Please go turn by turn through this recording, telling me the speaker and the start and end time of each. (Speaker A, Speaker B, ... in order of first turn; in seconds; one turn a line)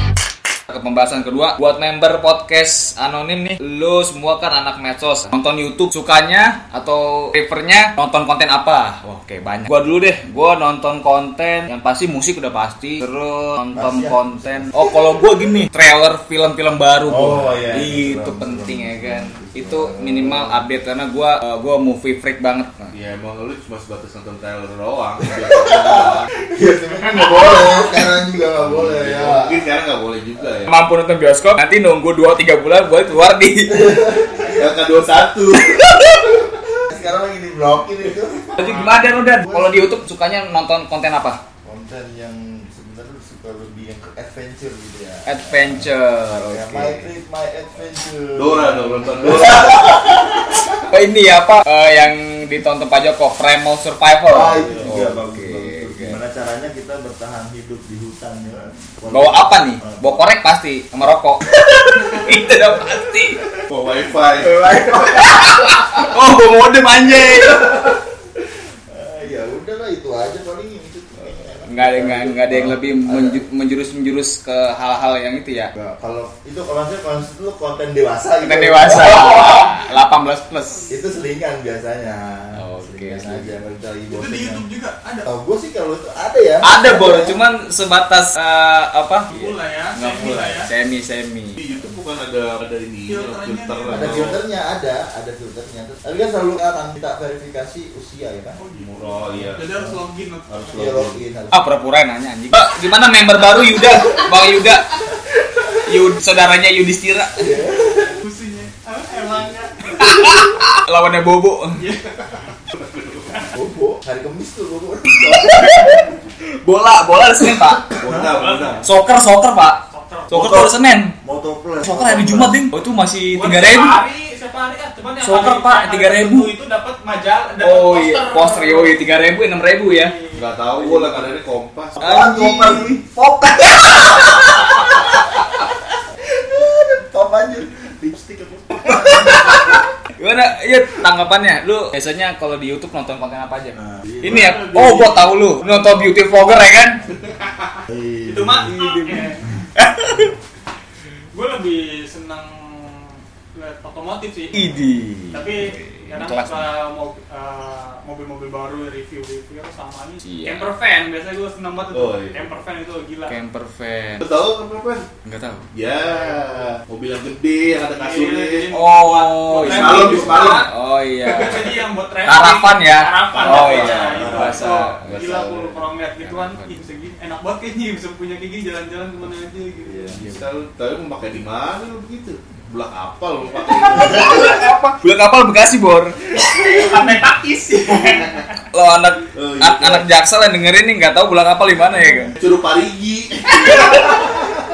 Speaker A: 0.7-22.9
Speaker B: 13.7-15.6
Speaker B: 17.1-20.6
Speaker C: 22.9-26.3
Speaker B: 25.3-29.6
Speaker C: 28.6-30.7
Speaker A: 30.7-34.2
Speaker B: 33.7-34.7
Speaker C: 34.5-36.4
Speaker A: 35.8-36.1
Speaker B: 36.8-39.9
Speaker A: 38.5-41.4
Speaker D: 38.6-39.0
Speaker B: 41.6-50.7
Speaker A: 45.2-47.1
Speaker C: 48.3-50.0
Speaker A: 49.4-56.2
Speaker B: 54.3-60.2
Speaker C: 54.5-55.0
Speaker A: 59.1-63.5
Speaker B: 61.7-62.3
Speaker C: 63.7-64.7
Speaker A: 64.4-67.9
Speaker B: 64.7-65.3
Speaker B: 67.0-68.0
Speaker B: 68.9-73.4
Speaker A: 71.7-75.7
Speaker B: 75.8-79.7
Speaker A: 78.4-80.9
Speaker B: 80.9-84.6
Speaker A: 82.6-83.6
Speaker D: 84.1-85.3
Speaker B: 85.3-87.4
Speaker A: 86.6-91.6
Speaker D: 89.3-90.7
Speaker C: 91.6-94.4
Speaker D: 93.1-94.3
Speaker B: 93.9-98.6
Speaker D: 98.6-101.0
Speaker C: 98.8-99.8
Speaker C: 100.5-101.2
Speaker B: 100.7-101.6
Speaker A: 101.5-104.9
Speaker A: 105.8-107.5
Speaker B: 107.4-108.1
Speaker D: 108.1-110.4
Speaker A: 110.0-111.8
Speaker D: 111.8-112.2
Speaker C: 112.2-113.4
Speaker B: 113.5-116.1
Speaker A: 115.1-117.9
Speaker C: 117.9-118.9
Speaker D: 118.2-118.9
Speaker A: 118.8-121.2
Speaker D: 119.9-120.5
Speaker B: 120.3-122.6
Speaker A: 121.8-124.0
Speaker D: 123.3-129.0
Speaker A: 125.2-126.5
Speaker A: 127.6-130.1
Speaker D: 129.8-130.5
Speaker C: 130.3-132.0
Speaker A: 130.8-131.2
Speaker A: 132.0-132.9
Speaker B: 132.0-139.8
Speaker A: 133.8-135.0
Speaker A: 138.8-147.0
Speaker B: 143.8-144.6
Speaker C: 144.2-145.3
Speaker D: 145.6-146.2
Speaker B: 147.9-148.8
Speaker D: 148.2-149.5
Speaker A: 148.7-150.3
Speaker D: 151.3-154.8
Speaker A: 154.5-156.7
Speaker D: 155.3-163.4
Speaker A: 160.2-160.7
Speaker C: 161.9-162.4
Speaker A: 163.2-164.2
Speaker C: 164.2-165.1
Speaker A: 165.2-165.7
Speaker C: 165.7-168.7
Speaker D: 166.0-166.7
Speaker D: 167.7-170.7
Speaker A: 168.7-175.5
Speaker C: 169.5-170.7
Speaker D: 171.2-180.2
Speaker C: 171.4-171.7
Speaker C: 173.3-175.7
Speaker B: 174.1-174.7
Speaker A: 176.2-176.8
Speaker B: 179.8-180.2
Speaker C: 180.1-184.5
Speaker A: 183.8-186.4
Speaker D: 186.4-188.5
Speaker A: 188.7-192.4
Speaker C: 189.3-190.1
Speaker C: 192.4-194.6
Speaker A: 193.5-194.3